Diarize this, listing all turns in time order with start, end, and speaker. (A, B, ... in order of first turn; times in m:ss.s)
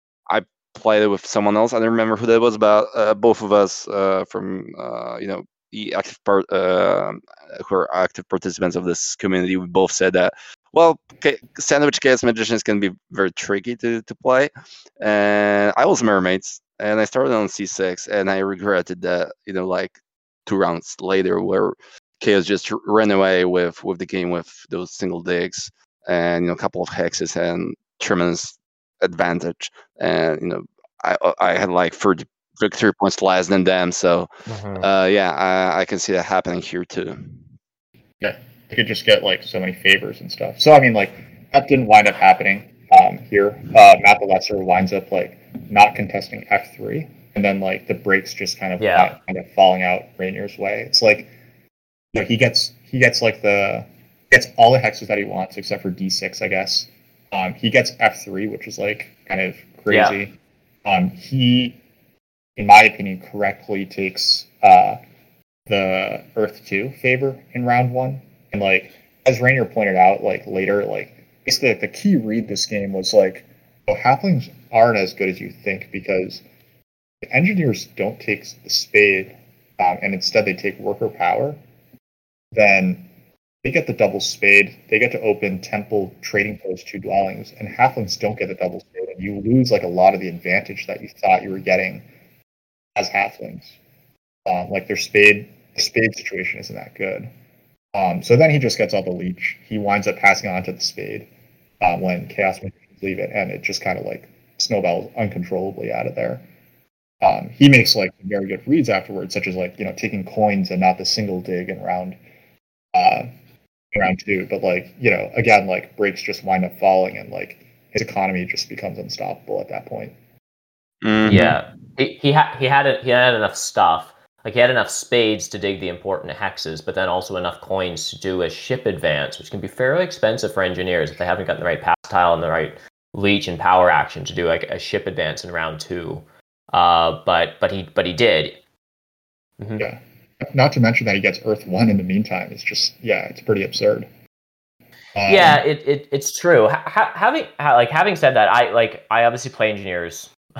0:00.3-0:34.3 A
0:34.5-0:34.9 B
0:34.8-0:37.4 A
0:38.2-0:51.3 C
0:48.8-0:49.1 B
0:52.1-1:01.8 C
0:59.9-1:00.2 B
1:02.6-1:05.0 C
1:05.7-1:16.4 C
1:17.2-1:21.6 C
1:22.5-1:23.1 C
1:23.6-1:32.0 C
1:33.0-1:33.8 C
1:34.4-1:37.3 C
1:37.9-1:41.3 C
1:41.8-1:46.4 C
1:47.2-1:52.2 C
1:52.9-1:53.3 C
1:53.9-2:00.1 C
2:01.0-2:01.4 A
2:01.2-2:01.6 C
2:01.3-2:18.6 B
2:19.6-2:19.9 B
2:19.8-2:24.1 C
2:25.1-2:25.6 C
2:25.3-2:30.3 B